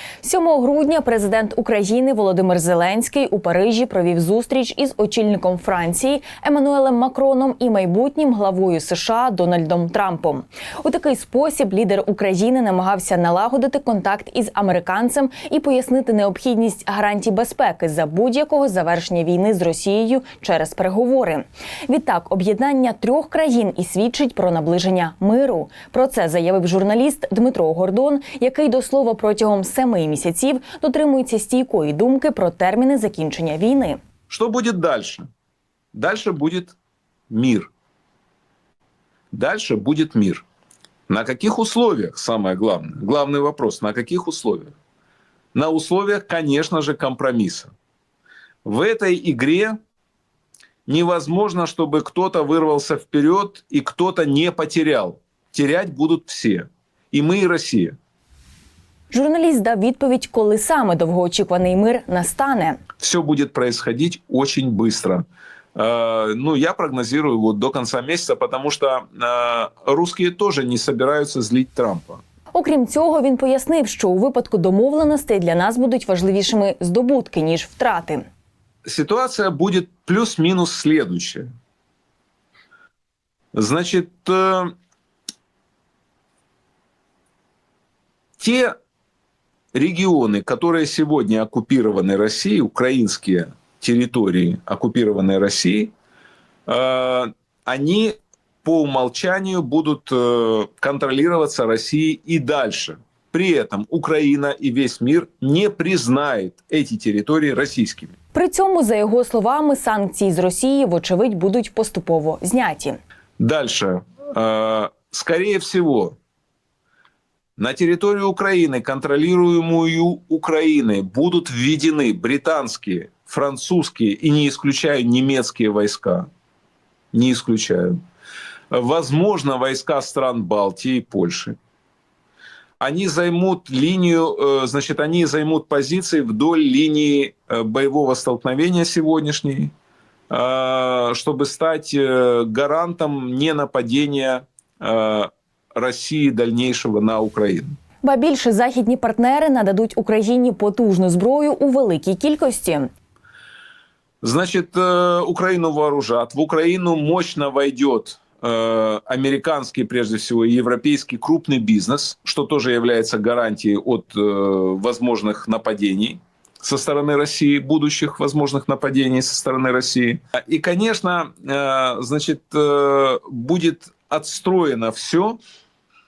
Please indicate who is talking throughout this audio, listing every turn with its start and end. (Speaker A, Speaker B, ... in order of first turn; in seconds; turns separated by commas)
Speaker A: 0.2-34.0, Speaker B: 34.3-35.2, Speaker B: 35.9-36.8, Speaker B: 37.3-37.7, Speaker B: 39.3-40.4, Speaker B: 41.1-44.7, Speaker B: 45.5-47.7, Speaker B: 48.6-49.8, Speaker B: 50.9-58.0, Speaker A: 59.1-62.8, Speaker B: 63.0-65.2, Speaker B: 65.8-72.2, Speaker A: 72.5-78.2, Speaker B: 78.8-81.5, Speaker B: 83.5-84.7, Speaker B: 88.4-88.7, Speaker B: 89.7-95.9, Speaker B: 96.7-108.1, Speaker A: 108.3-113.0, Speaker B: 113.4-116.2, Speaker B: 117.6-126.3, Speaker B: 127.1-128.0, Speaker B: 128.7-131.6, Speaker B: 132.8-139.7, Speaker B: 140.3-147.8, Speaker A: 148.0-152.9, Speaker B: 154.2-175.4